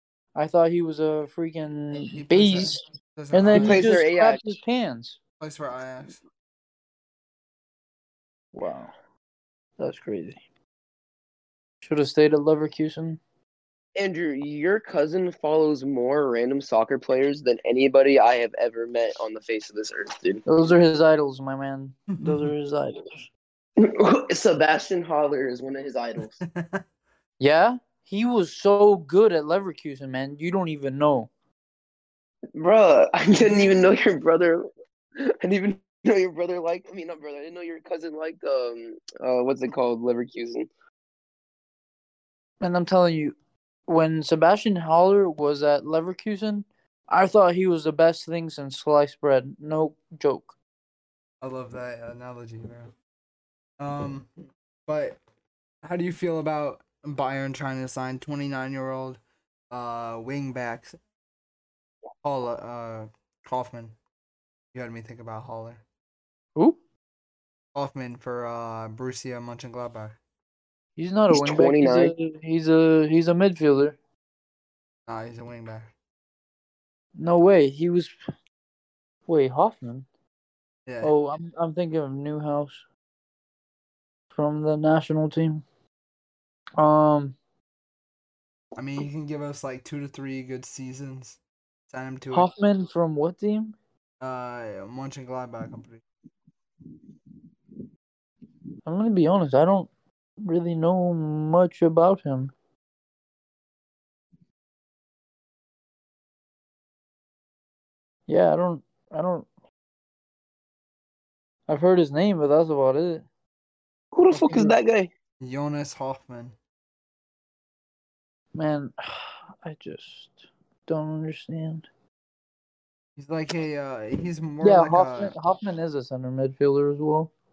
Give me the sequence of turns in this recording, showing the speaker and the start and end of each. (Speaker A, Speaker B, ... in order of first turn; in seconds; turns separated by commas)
Speaker A: 0.3-5.2, Speaker B: 2.1-4.0, Speaker C: 3.5-4.4, Speaker B: 5.4-6.2, Speaker A: 8.5-8.9, Speaker A: 9.8-10.4, Speaker A: 11.8-13.2, Speaker C: 13.9-20.4, Speaker A: 20.4-23.3, Speaker B: 22.1-22.5, Speaker C: 23.8-26.4, Speaker B: 26.4-26.8, Speaker A: 27.4-31.3, Speaker C: 32.5-34.7, Speaker C: 35.2-40.7, Speaker A: 42.6-43.3, Speaker A: 43.9-50.5, Speaker B: 51.4-52.9, Speaker B: 53.8-54.3, Speaker B: 54.9-55.2, Speaker B: 55.8-60.9, Speaker B: 62.2-64.0, Speaker B: 64.7-65.8, Speaker B: 67.7-70.2, Speaker A: 71.0-74.0, Speaker C: 71.3-72.1, Speaker B: 75.1-75.9, Speaker A: 77.2-78.1, Speaker A: 79.3-80.0, Speaker B: 80.8-81.1, Speaker A: 81.0-82.8, Speaker A: 84.3-85.6, Speaker A: 86.8-87.3, Speaker B: 88.8-92.5, Speaker A: 92.3-93.7, Speaker B: 94.2-96.0, Speaker A: 98.8-99.9, Speaker A: 100.4-102.5, Speaker A: 108.3-109.5, Speaker A: 111.7-113.2, Speaker C: 114.1-115.1, Speaker A: 114.3-114.7, Speaker B: 115.4-116.5, Speaker A: 118.5-121.8, Speaker B: 123.2-125.3, Speaker A: 124.6-127.3